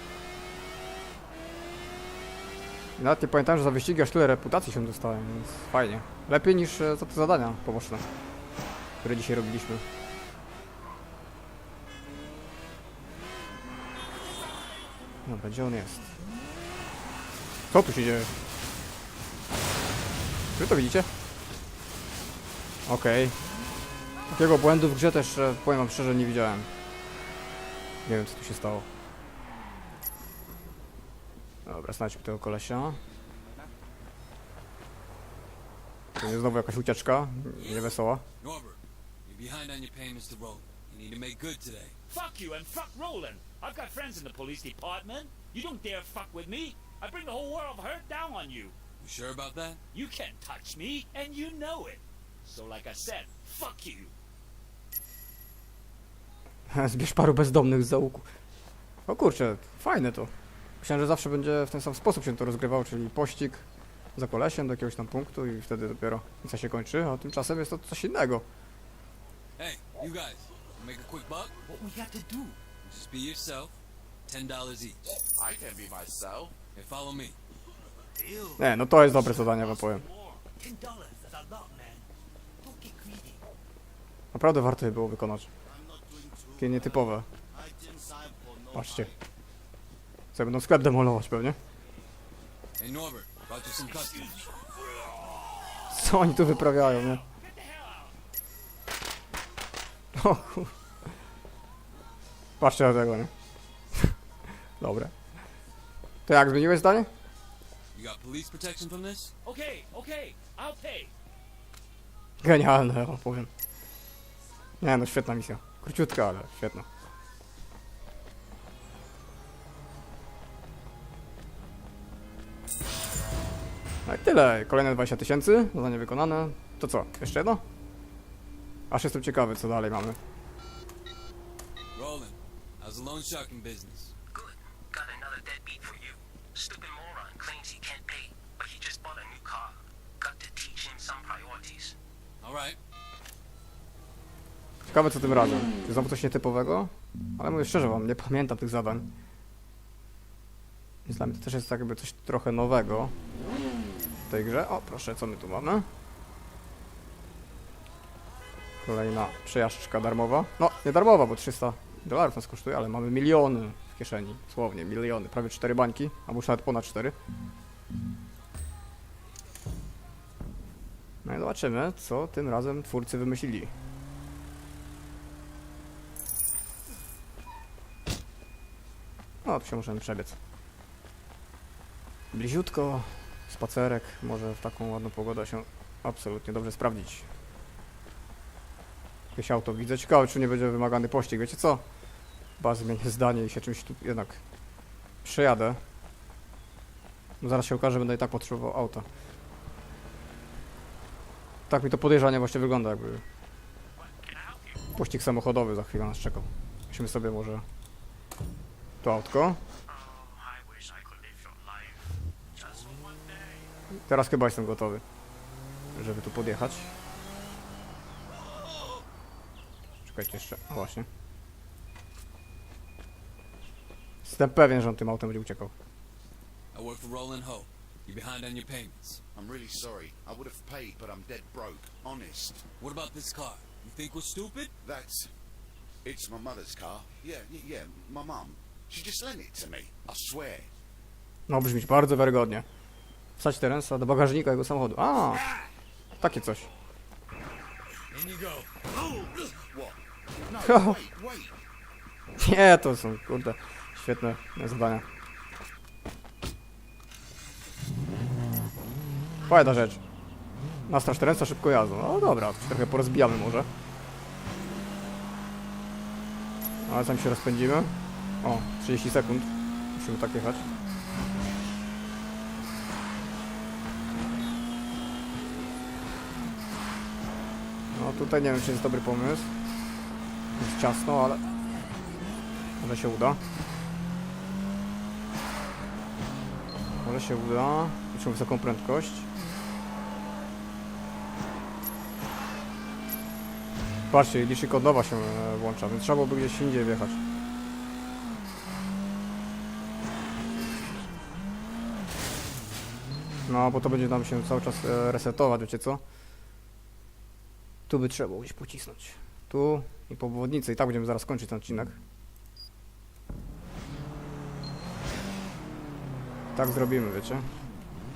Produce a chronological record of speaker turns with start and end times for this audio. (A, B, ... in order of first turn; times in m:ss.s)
0:03.0-0:08.1 A
0:09.0-0:09.8 A
0:15.2-0:16.1 A
0:17.7-0:18.3 A
0:20.6-0:21.1 A
0:22.9-0:23.4 A
0:24.3-0:26.7 A
0:28.0-0:28.9 A
0:31.6-0:33.0 A
0:36.2-0:38.2 A
0:38.4-0:42.0 B
0:42.1-0:48.8 C
0:49.0-0:49.8 B
0:49.9-0:54.1 C
0:56.7-0:58.3 A
0:59.1-1:03.6 A
1:04.2-1:08.5 A
1:09.6-1:11.6 B
1:11.6-1:12.6 C
1:12.8-1:13.7 B
1:14.3-1:15.0 B
1:15.4-1:16.5 D
1:16.7-1:17.4 B
1:18.1-1:22.1 C
1:18.6-1:20.0 A
1:22.6-1:23.4 C
1:24.3-1:25.5 A
1:25.7-1:26.9 D
1:26.6-1:27.3 A
1:27.5-1:29.1 D
1:28.7-1:29.1 A
1:30.3-1:31.6 A
1:32.8-1:34.5 B
1:34.7-1:38.1 C
1:35.9-1:37.2 A
1:40.1-1:40.7 A
1:42.6-1:43.3 A
1:44.8-1:45.1 A
1:46.2-1:47.1 A
1:47.9-1:49.3 B
1:49.4-1:51.1 C
1:52.4-1:53.5 A
1:54.8-1:56.9 A
2:04.1-2:07.6 A
2:08.9-2:10.2 A
2:12.0-2:14.1 B
2:14.3-2:22.0 E
2:22.4-2:22.8 B
2:24.9-2:29.1 A
2:31.1-2:33.1 A
2:34.2-2:35.9 A
2:38.8-2:47.2 A
2:51.2-2:53.7 A
2:59.4-3:00.4 A
3:02.3-3:07.2 A
3:09.4-3:11.8 A
3:12.6-3:14.4 A
3:15.2-3:15.8 A
3:17.4-3:19.1 A
3:21.7-3:23.2 A
3:24.0-3:24.9 C
3:25.0-3:27.6 A
3:29.0-3:29.6 A
3:29.9-3:33.7 C
3:34.1-3:35.0 A
3:36.0-3:36.9 A
3:40.0-3:41.1 A
3:44.2-3:45.7 A
3:46.7-3:49.2 B
3:49.3-3:52.6 D
3:52.8-3:54.7 B
3:54.8-3:55.3 D
3:56.0-4:00.7 D
4:01.5-4:02.7 A
4:03.4-4:05.5 A
4:06.2-4:06.7 A
4:08.1-4:08.7 B
4:09.7-4:11.6 D
4:10.6-4:11.0 A
4:12.4-4:15.0 A
4:19.5-4:20.0 A
4:20.9-4:23.7 A
4:26.8-4:30.6 A
4:38.0-4:39.5 A
4:40.6-4:41.4 A
4:42.8-4:43.4 A
4:47.0-4:49.3 A
4:54.1-4:57.2 A
5:03.5-5:06.0 A
5:07.9-5:12.0 A
5:16.5-5:17.5 A